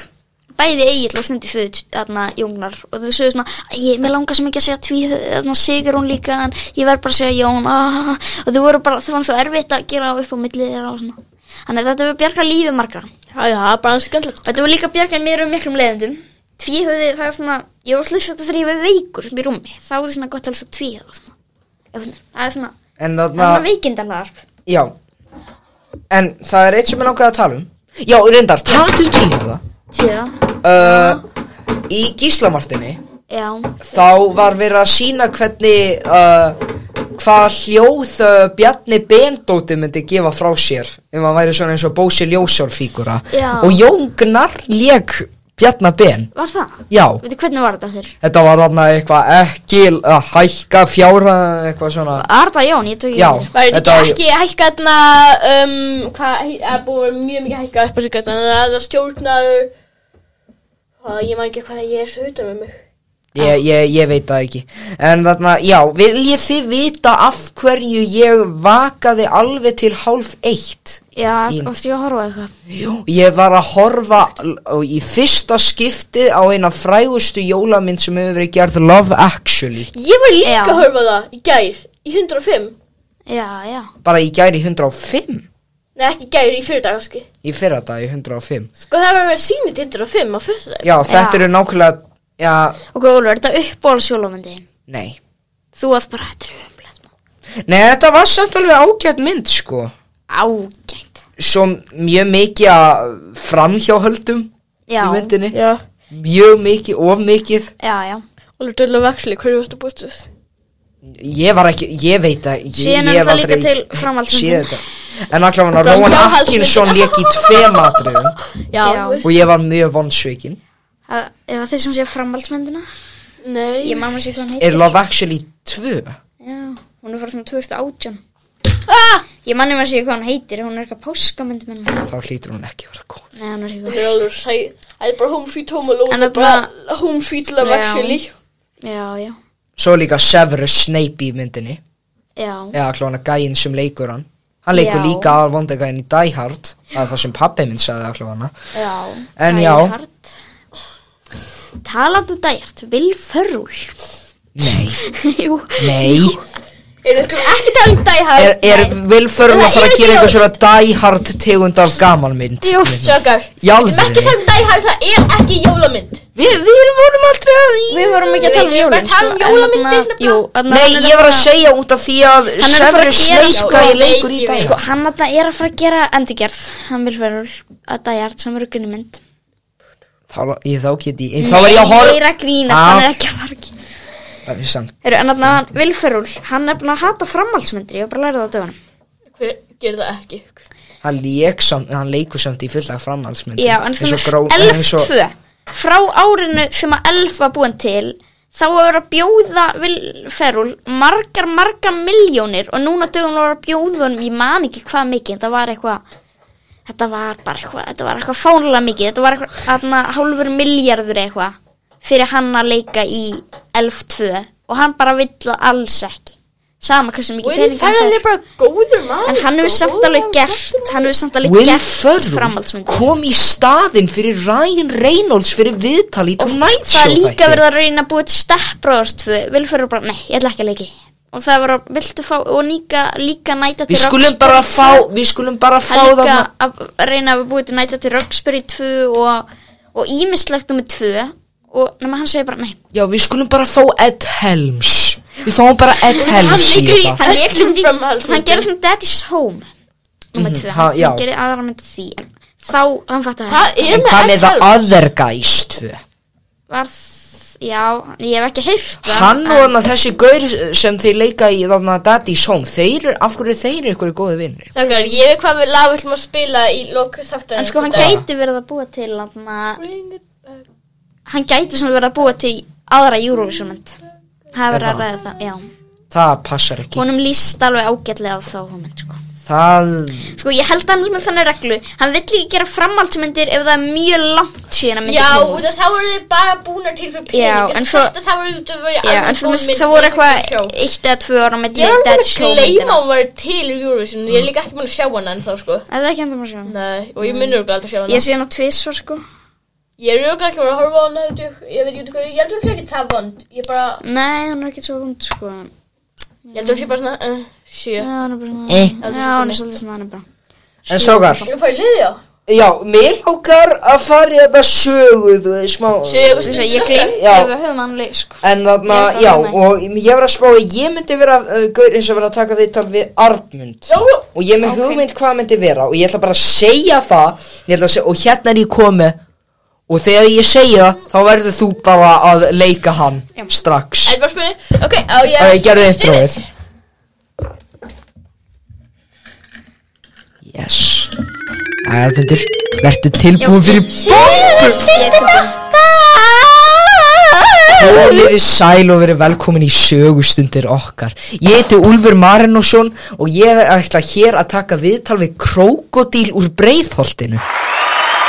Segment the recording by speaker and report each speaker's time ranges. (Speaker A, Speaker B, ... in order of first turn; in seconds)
Speaker A: 0.6-13.1, 14.4-21.3, 21.9-22.7, 23.4-24.4, 29.9-31.2, 33.3-33.9, 43.3-43.8, 46.3-48.1, 52.2-53.5, 71.2-72.5, 80.4-80.9, 83.3-83.9, 91.1-91.5, 92.9-94.7, 95.8-97.0, 100.3-101.2, 104.9-105.3, 107.8-108.2, 112.8-114.8, 118.8-119.2, 121.1-122.8, 123.8-124.9, 126.4-128.2, 129.4-132.1, 133.3-134.2, 136.1-136.7, 137.6-138.2, 138.8-139.4, 142.4-142.8, 144.7-145.3, 148.7-150.3, 151.8-153.9, 155.0-156.4, 158.6-158.9, 167.9-171.5, 172.6-174.0, 174.6-179.2, 181.4-183.7, 185.0-188.8, 193.6-206.0, 206.9-218.2, 219.2-223.0, 226.4-235.0, 235.9-242.8, 247.2-249.7, 250.3-253.9, 256.7-259.7, 264.8-265.2, 267.6-269.8, 271.3-273.9, 274.5-275.7, 276.9-279.2, 280.3-285.7, 287.3-288.1, 289.0-293.0, 295.9-299.2, 304.0-305.7, 306.4-306.9, 308.0-310.2, 310.9-311.5, 316.4-319.6, 343.4-345.6, 347.6-348.3
Speaker B: 13.3-14.4, 53.5-59.7, 61.0-62.8, 79.9-82.7, 86.0-87.3, 88.8-90.9, 105.5-105.8, 108.6-110.3, 115.8-118.2, 118.7-119.3, 123.4-124.0, 128.9-129.2, 133.9-138.3, 157.0-158.7, 159.4-160.5, 162.6-166.2, 168.4-170.4, 173.5-174.8, 189.3-190.6, 217.4-221.1, 246.1-248.7, 253.5-254.8, 264.7-268.1, 269.8-270.6, 285.1-290.7, 291.7-295.8, 296.6-298.2, 300.0-304.0, 306.5-308.1, 309.0-309.6, 311.4-312.2, 316.0-317.1, 323.9-325.0, 334.0-336.4
Speaker C: 23.0-23.6, 24.7-24.9, 26.1-29.6, 30.6-31.2, 31.9-33.0, 33.9-36.6, 37.1-46.3, 46.9-47.2, 48.2-52.2, 53.1-54.2, 63.3-71.7, 72.7-79.9, 84.0-85.5, 87.4-88.7, 90.8-92.8, 94.9-95.2, 97.7-99.9, 101.4-105.6, 106.1-107.7, 111.0-118.3, 119.2-120.6, 124.6-126.2, 132.0-133.2, 139.8-141.8, 142.7-148.5, 149.4-149.9, 154.6-155.0, 155.8-156.4, 158.4-164.3, 166.3-168.2, 170.7-174.8, 180.3-183.2, 184.4-185.6, 191.0-195.1, 221.4-227.6, 233.9-236.5, 242.9-247.2, 250.3-251.2, 253.9-256.0, 259.0-264.7, 267.9-268.2, 274.7-275.0, 276.1-277.0, 279.4-280.3, 308.7-308.9, 310.9-311.5, 312.5-317.5, 318.4-329.2, 329.9-334.2, 335.3-336.4, 340.4-341.1, 341.8-344.9, 345.7-357.4